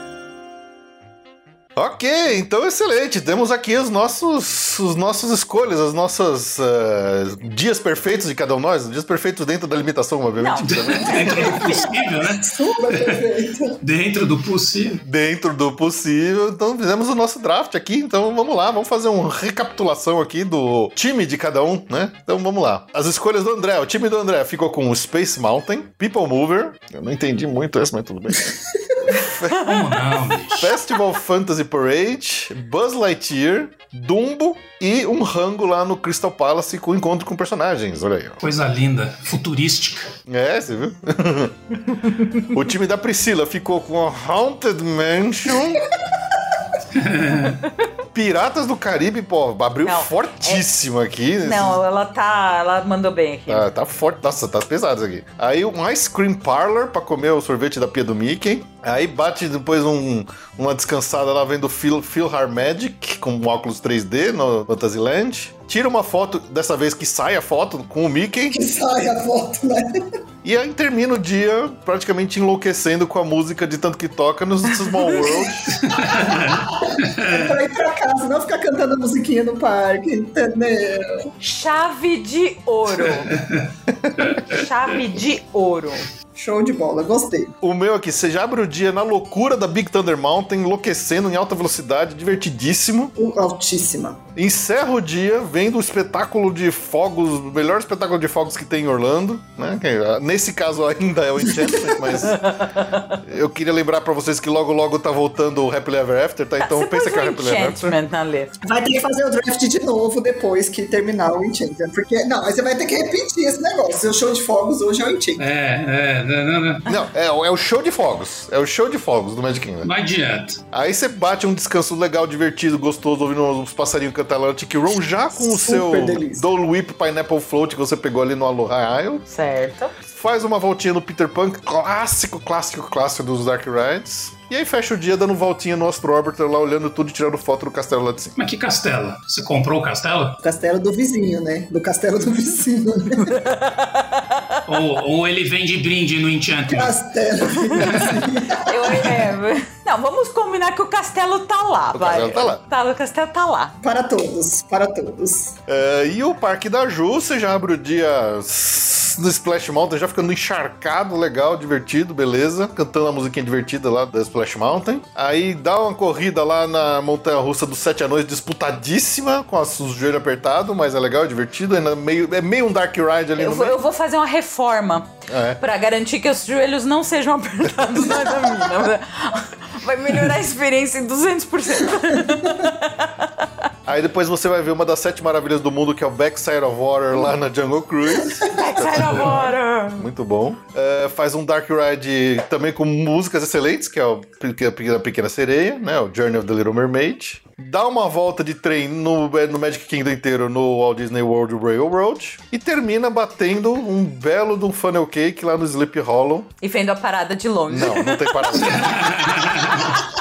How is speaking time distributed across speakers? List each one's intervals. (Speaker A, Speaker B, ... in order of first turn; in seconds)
Speaker A: 1.8-11.7, 15.0-29.6, 30.6-38.4, 40.3-41.6, 42.4-45.8, 48.1-51.8, 53.5-68.6, 70.4-75.9, 87.6-93.1, 94.3-102.5, 103.2-108.0, 116.9-119.9, 120.7-129.2, 130.1-138.3, 151.9-152.6, 155.7-173.8, 175.3-175.6, 183.9-206.5, 207.7-209.4
Speaker B: 10.4-11.6, 49.8-50.6, 51.4-53.7, 81.4-83.3, 84.5-86.1, 102.2-103.2, 106.6-108.5, 129.3-129.9, 143.2-144.5, 148.7-153.8, 173.4-183.7, 188.5-190.1, 206.6-208.8
Speaker C: 10.6-13.2, 13.8-15.0, 29.5-30.7, 38.4-40.1, 46.9-47.6, 75.8-77.5, 83.3-84.5, 115.4-116.8, 119.8-120.6, 138.4-140.4, 144.7-146.9, 147.8-148.1, 189.0-189.3, 208.6-210.0
Speaker D: 11.3-13.8, 68.5-70.0, 76.1-81.3, 86.3-87.5, 93.2-94.2, 101.6-102.0, 108.6-115.5, 125.3-126.5, 140.4-143.4, 146.7-149.2, 153.8-155.6